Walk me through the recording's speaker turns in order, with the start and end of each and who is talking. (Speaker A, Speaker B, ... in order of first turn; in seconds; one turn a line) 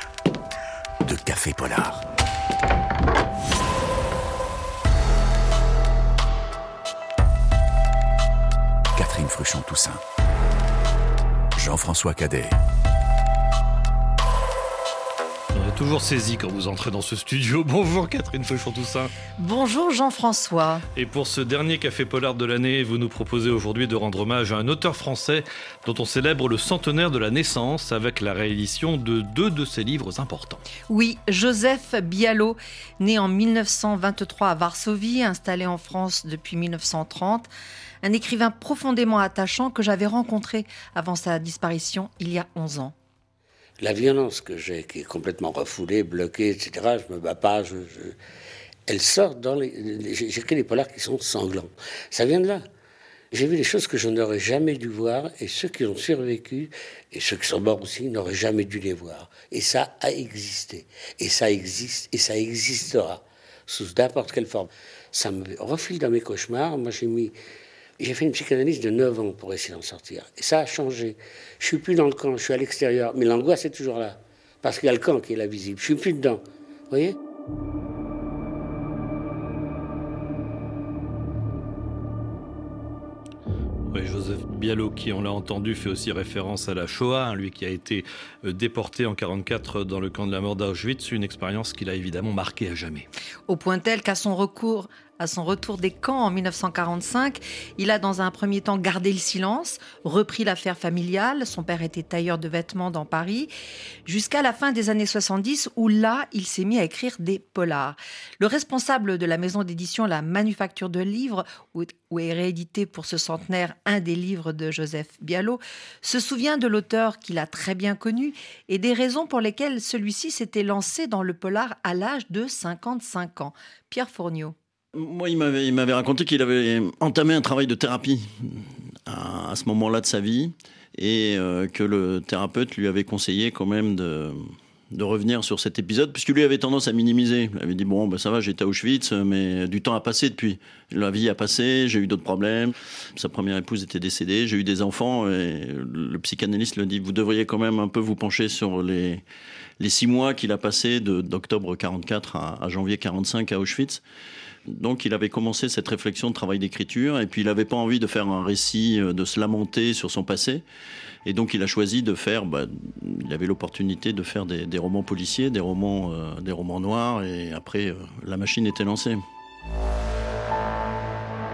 Speaker A: 1.0-2.0
Speaker A: 8.9-10.0
Speaker A: 11.6-12.6
Speaker B: 15.5-19.1
Speaker C: 19.4-20.8
Speaker B: 21.0-30.6
Speaker C: 30.9-37.5
Speaker C: 38.0-42.9
Speaker D: 43.8-48.1
Speaker D: 48.9-52.6
Speaker D: 53.3-67.3
Speaker D: 68.0-77.2
Speaker B: 83.9-93.1
Speaker C: 93.5-103.5
Speaker C: 104.0-124.5
Speaker E: 125.0-134.4
Speaker E: 134.9-149.2
Speaker E: 149.8-154.0
Speaker E: 154.7-160.6
Speaker E: 161.2-169.2